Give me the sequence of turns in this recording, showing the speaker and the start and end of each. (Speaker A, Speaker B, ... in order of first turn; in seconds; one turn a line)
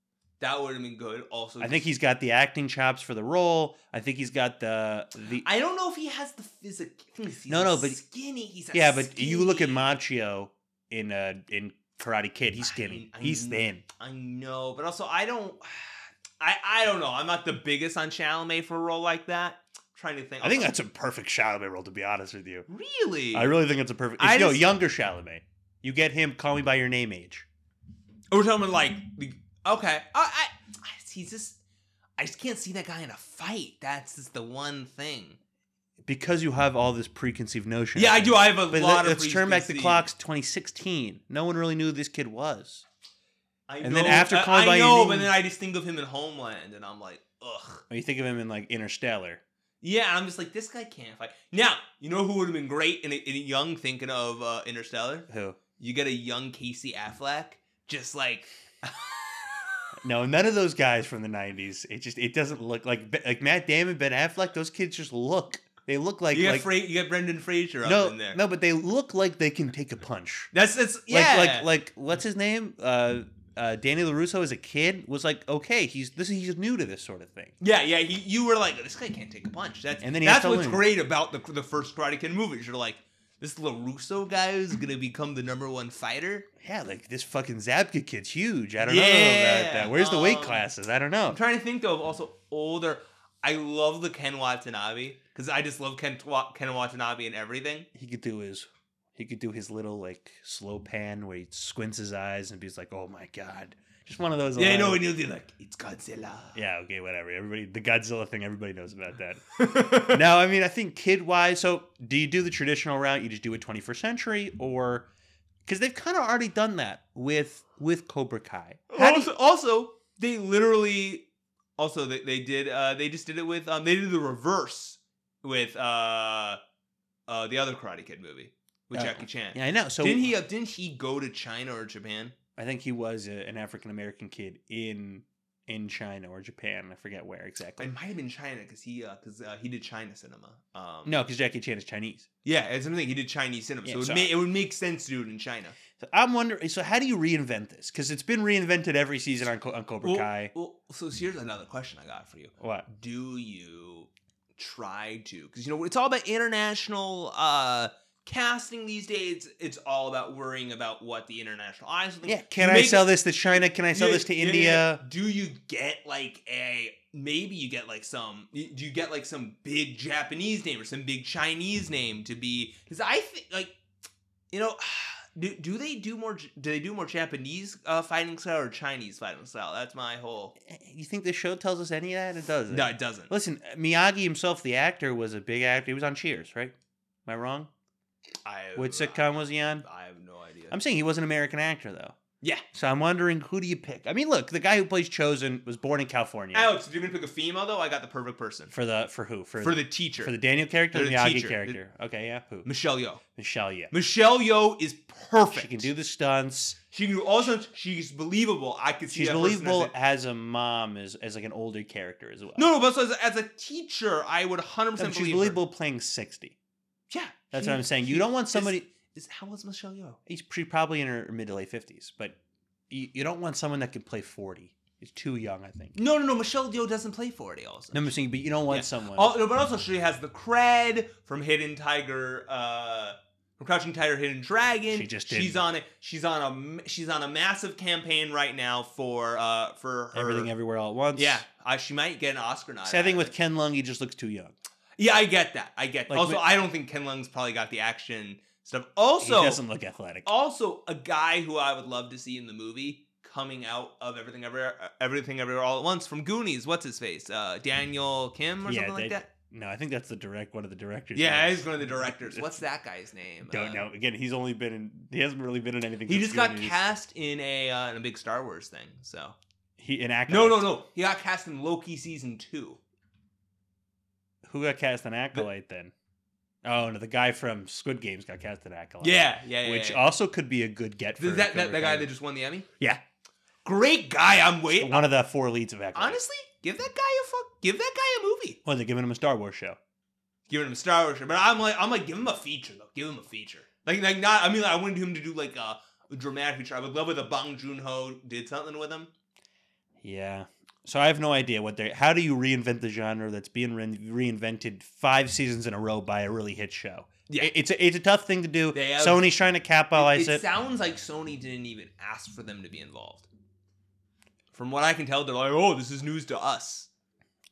Speaker A: 0.4-1.9
Speaker B: 1.6-5.5
Speaker A: 5.3-9.9
Speaker B: 7.5-8.0
Speaker B: 8.7-13.8
Speaker A: 12.6-20.7
Speaker B: 20.4-22.7
Speaker A: 22.7-23.6
Speaker B: 23.3-27.5
Speaker A: 24.2-24.7
Speaker A: 28.3-31.6
Speaker A: 32.2-35.4
Speaker B: 36.0-42.8
Speaker A: 38.0-40.1
Speaker A: 43.7-47.8
Speaker B: 43.8-45.3
Speaker B: 47.9-49.4
Speaker A: 49.8-59.9
Speaker B: 55.3-55.6
Speaker B: 60.0-66.7
Speaker A: 66.3-68.4
Speaker B: 67.8-70.5
Speaker A: 70.5-71.7
Speaker B: 71.1-77.5
Speaker A: 77.6-86.5
Speaker B: 80.0-80.9
Speaker B: 86.6-91.4
Speaker A: 88.8-90.6
Speaker A: 91.3-97.9
Speaker B: 98.0-105.0
Speaker A: 104.6-106.6
Speaker B: 106.5-109.4
Speaker A: 109.6-110.2
Speaker B: 110.1-115.1
Speaker B: 115.7-119.3
Speaker A: 118.9-121.3
Speaker A: 121.8-126.6
Speaker A: 127.3-132.4
Speaker B: 128.9-130.3
Speaker B: 132.6-137.9
Speaker A: 137.8-141.2
Speaker B: 141.1-142.3
Speaker A: 142.4-145.8
Speaker B: 143.8-144.3
Speaker B: 146.0-150.5
Speaker A: 150.0-173.8
Speaker B: 152.6-152.9
Speaker B: 162.2-165.0
Speaker A: 174.5-180.6
Speaker B: 180.6-186.7
Speaker A: 182.7-183.3
Speaker B: 187.3-187.7
Speaker A: 188.4-190.8
Speaker B: 188.8-189.9
Speaker B: 190.7-192.2
Speaker B: 192.7-196.7
Speaker A: 196.5-198.7
Speaker B: 198.7-202.7
Speaker A: 199.6-200.3
Speaker A: 200.9-201.8
Speaker A: 202.7-203.2
Speaker B: 203.4-203.9
Speaker A: 203.9-205.9
Speaker B: 205.5-206.8
Speaker A: 206.9-209.9
Speaker B: 209.1-212.7
Speaker A: 212.6-215.6
Speaker B: 215.0-216.6
Speaker A: 217.1-220.2
Speaker B: 217.5-218.8
Speaker B: 220.3-222.4
Speaker B: 222.9-225.9
Speaker A: 225.9-228.1
Speaker B: 227.9-229.3
Speaker A: 228.7-240.5
Speaker B: 234.9-235.6
Speaker B: 240.1-241.4
Speaker A: 241.2-243.3
Speaker B: 242.8-244.6
Speaker A: 245.0-249.6
Speaker B: 246.1-246.4
Speaker B: 249.2-250.3
Speaker A: 250.2-259.3
Speaker B: 258.6-262.6
Speaker A: 261.1-263.9
Speaker B: 263.5-266.8
Speaker A: 266.1-269.4
Speaker B: 269.8-270.7
Speaker A: 270.3-272.8
Speaker B: 274.4-275.9
Speaker B: 276.6-282.1
Speaker A: 279.0-280.0
Speaker A: 281.2-282.7
Speaker A: 283.6-285.1
Speaker B: 284.7-286.2
Speaker A: 285.9-288.6
Speaker B: 288.6-289.8
Speaker A: 290.5-299.1
Speaker B: 300.0-310.4
Speaker A: 308.7-309.3
Speaker A: 309.9-313.3
Speaker A: 314.5-316.9